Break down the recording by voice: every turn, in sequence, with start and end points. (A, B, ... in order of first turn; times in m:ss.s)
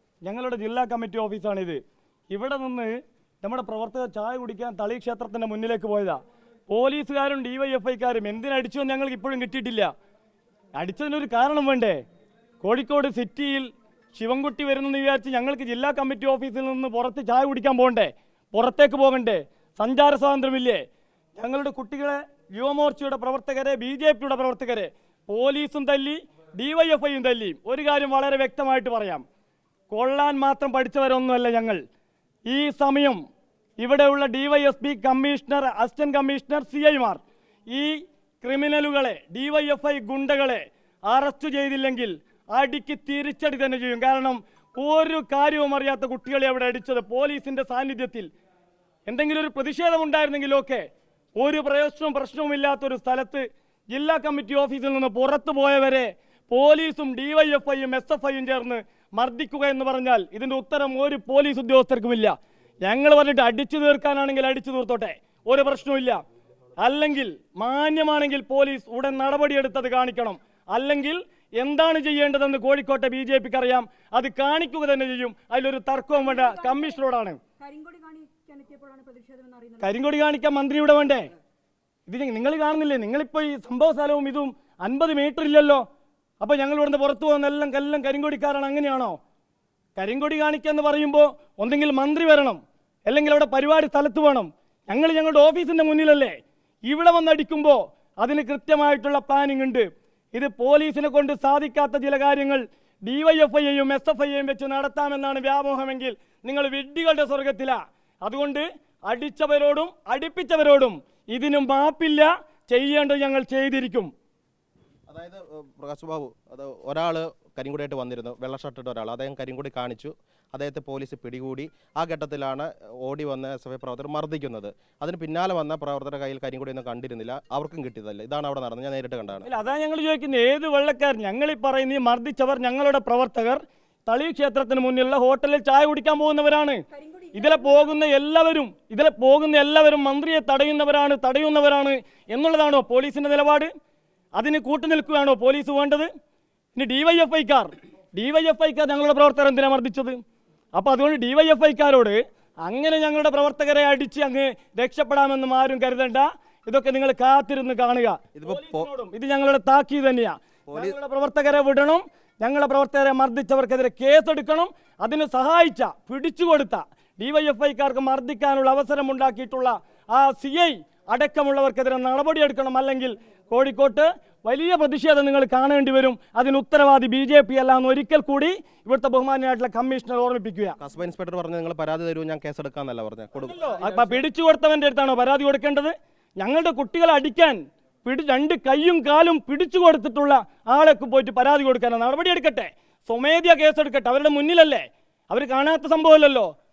0:00.2-0:09.9 A
0:10.8-0:12.0 A
0:12.6-0:20.8 A
0:21.4-0:29.2 A
0:29.9-0:31.8 A
0:32.5-0:33.2 A
0:33.8-0:48.3 A
0:49.1-0:50.9 A
0:51.4-1:06.2 A
1:06.8-1:17.4 A
1:16.2-1:17.0 B
1:17.6-1:20.0 B
1:19.8-1:21.3 A
1:22.1-1:25.8 A
1:26.4-1:29.2 A
1:30.0-1:54.1 A
1:55.1-2:09.5 C
2:09.4-2:23.7 A
2:16.9-2:18.0 B
2:24.4-2:26.1 A
2:26.8-2:30.2 A
2:30.8-3:00.8 A
2:38.4-2:38.9 C
2:40.7-2:41.0 C
3:00.8-3:04.2 C
3:03.4-3:16.5 A